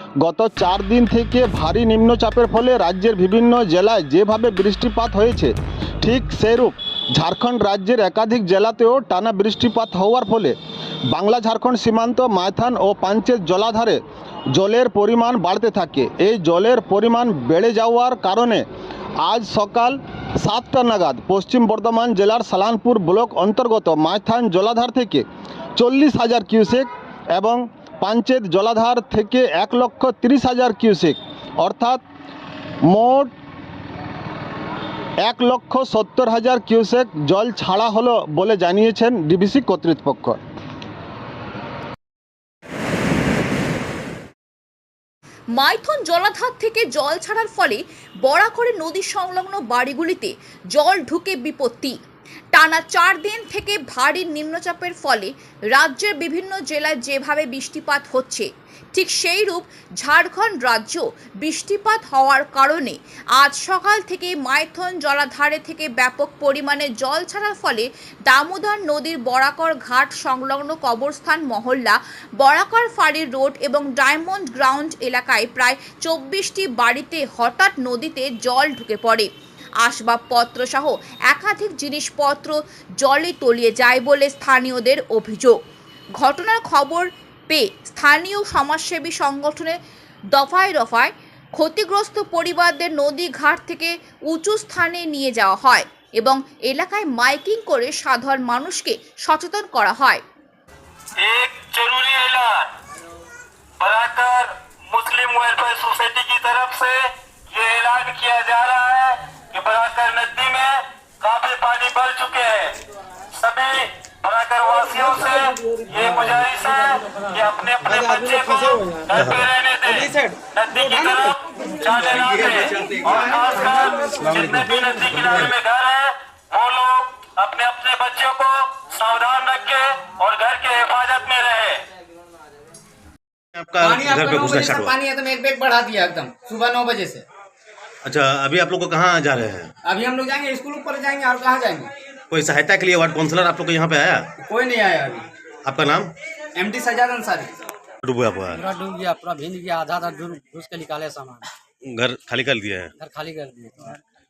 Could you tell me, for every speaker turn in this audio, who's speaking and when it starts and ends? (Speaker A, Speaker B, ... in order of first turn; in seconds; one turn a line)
Speaker A: 0.2-10.6
Speaker A: 11.1-14.0
Speaker A: 14.5-18.6
Speaker A: 19.2-25.2
Speaker A: 25.8-32.0
Speaker A: 32.9-33.3
Speaker A: 35.2-40.4
Speaker B: 45.5-52.0
Speaker B: 52.5-79.3
Speaker B: 79.8-85.6
Speaker B: 86.2-89.8
Speaker B: 90.3-100.2
Speaker C: 101.2-102.7
Speaker C: 103.8-112.8
Speaker C: 113.3-131.8
Speaker D: 119.1-119.5
Speaker D: 133.6-135.0
Speaker E: 133.8-137.2
Speaker D: 138.0-139.7
Speaker E: 139.9-141.9
Speaker D: 142.3-144.3
Speaker E: 144.4-145.3
Speaker D: 145.7-146.1
Speaker E: 146.6-147.5
Speaker D: 148.0-148.6
Speaker F: 148.6-151.5
Speaker D: 151.8-152.9
Speaker F: 153.0-154.0